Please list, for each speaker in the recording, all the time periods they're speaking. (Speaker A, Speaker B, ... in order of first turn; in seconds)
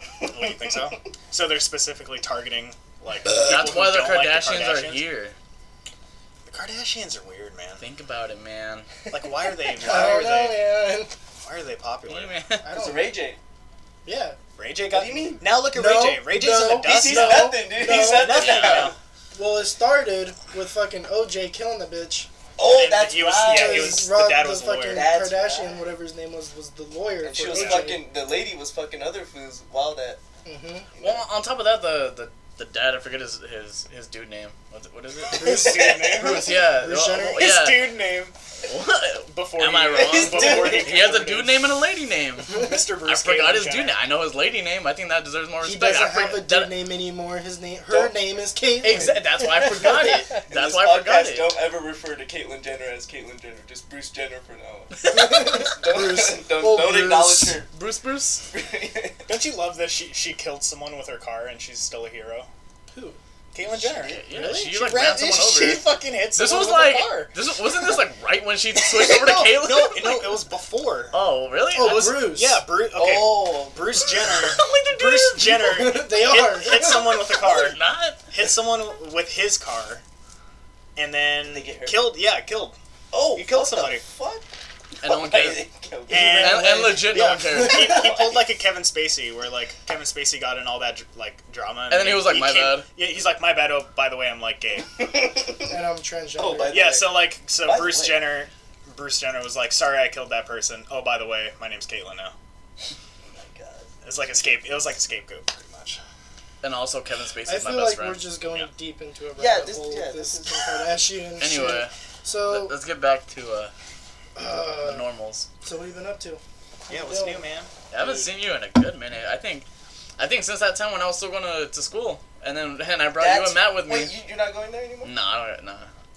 Speaker A: 0.3-5.0, 6.5-7.8, 9.1-10.7, 11.4-12.4, 14.6-19.0, 22.6-25.1, 27.5-27.9, 35.3-36.4, 37.4-38.3, 39.3-41.7, 42.5-44.0, 59.3-62.5, 63.5-67.3, 69.0-71.2, 71.8-77.8, 78.3-80.0, 81.0-82.8, 83.4-84.0, 86.1-95.1, 96.7-102.3, 104.0-106.0, 116.9-118.3
Speaker B: 3.3-3.8, 12.7-13.4, 14.9-15.5, 16.8-19.0, 22.6-24.1, 24.9-25.9, 27.2-30.2, 30.9-31.2, 35.3-36.4, 40.0-41.1, 47.9-48.2, 49.8-57.7, 58.5-59.4, 72.9-73.9, 81.4-82.1, 83.1-84.5, 85.0-86.6, 87.7-88.4, 95.0-95.7, 96.4-98.4, 103.3-104.0, 109.4-111.0, 123.2-125.1
Speaker C: 3.4-5.4, 7.8-8.9, 12.1-12.7, 18.3-18.9, 31.0-35.6, 36.1-38.0, 38.6-46.8, 48.8-51.5, 57.7-58.4, 63.7-70.3, 71.1-72.1, 74.2-75.7, 77.3-78.2, 85.0-85.7, 86.3-88.0, 91.9-92.9, 106.6-108.7, 111.4-111.9, 112.4-113.7, 114.8-115.5, 117.9-119.7, 120.2-124.1, 125.0-125.9
Speaker D: 9.7-11.1, 12.6-13.1, 14.1-14.4, 15.7-18.4, 19.3-22.3, 23.4-28.0, 30.4-30.9, 35.5-37.6, 45.6-50.4, 55.0-57.6, 62.9-63.2, 71.7-72.6, 75.5-77.2, 86.1-87.2, 95.7-97.0, 107.5-112.7, 114.4-115.1, 115.6-117.4